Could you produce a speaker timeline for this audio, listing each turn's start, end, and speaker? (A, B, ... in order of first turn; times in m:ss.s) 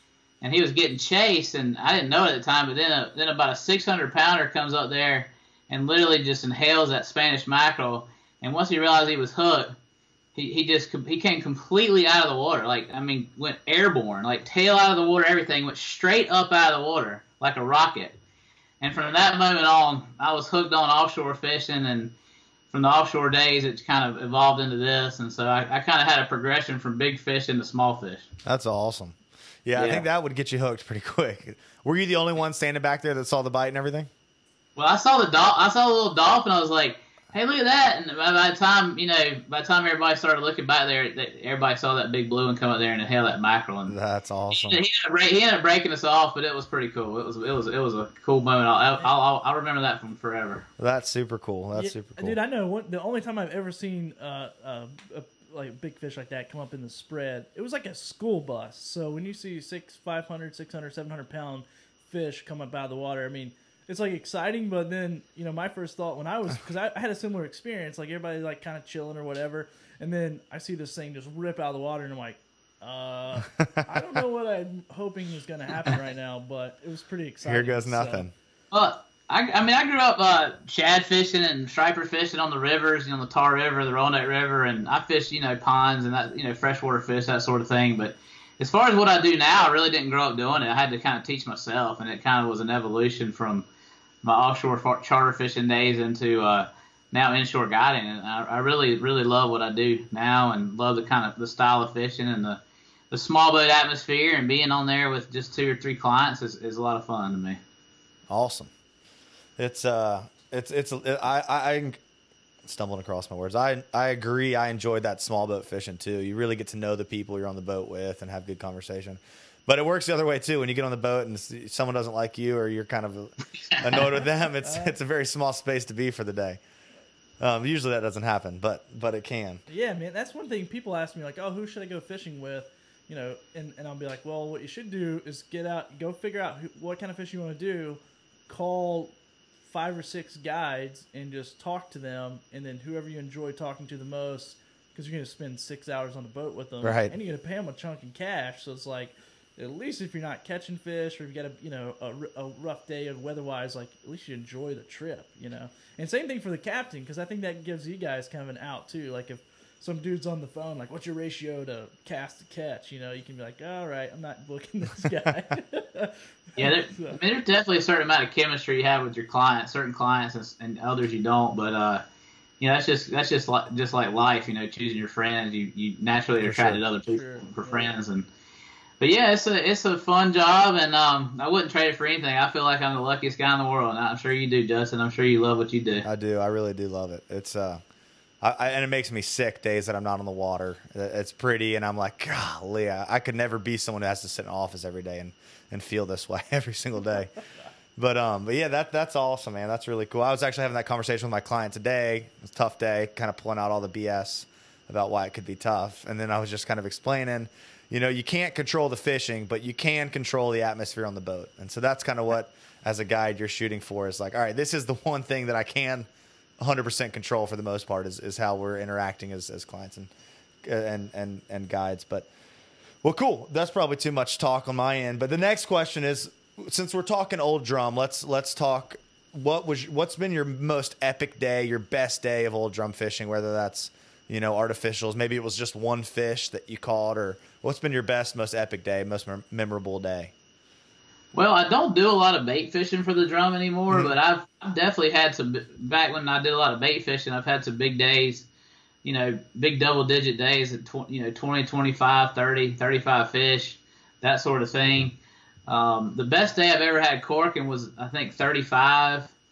0:00.4-0:09.8 A
0:10.4-0:18.2 A
0:18.8-0:22.1 A
0:22.7-0:28.3 A
0:28.4-0:34.1 B
0:29.8-0:30.0 A
0:34.8-0:44.0 A
0:43.9-0:44.8 B
0:44.5-0:50.7 A
0:50.8-0:52.4 B
0:51.8-1:18.3 C
1:13.8-1:14.0 B
1:17.4-1:18.3 B
1:18.7-1:33.6 A
1:34.2-1:47.6 A
1:48.3-1:48.7 B
1:49.6-1:52.0 B
1:52.6-2:06.6 B
2:04.6-2:04.9 C
2:07.4-2:09.6 B
2:09.7-2:19.1 C
2:19.7-2:47.2 C
2:26.8-2:27.2 B
2:46.6-2:52.0 A
2:52.6-2:58.3 A
2:56.4-2:56.8 B
2:57.0-2:57.9 C
2:59.0-3:06.0 A
3:06.0-3:07.8 B
3:08.4-3:17.4 B
3:18.0-3:40.1 B
3:40.6-3:42.3 B
3:43.0-4:00.3 B
4:01.3-4:08.5 A
4:09.0-4:19.3 A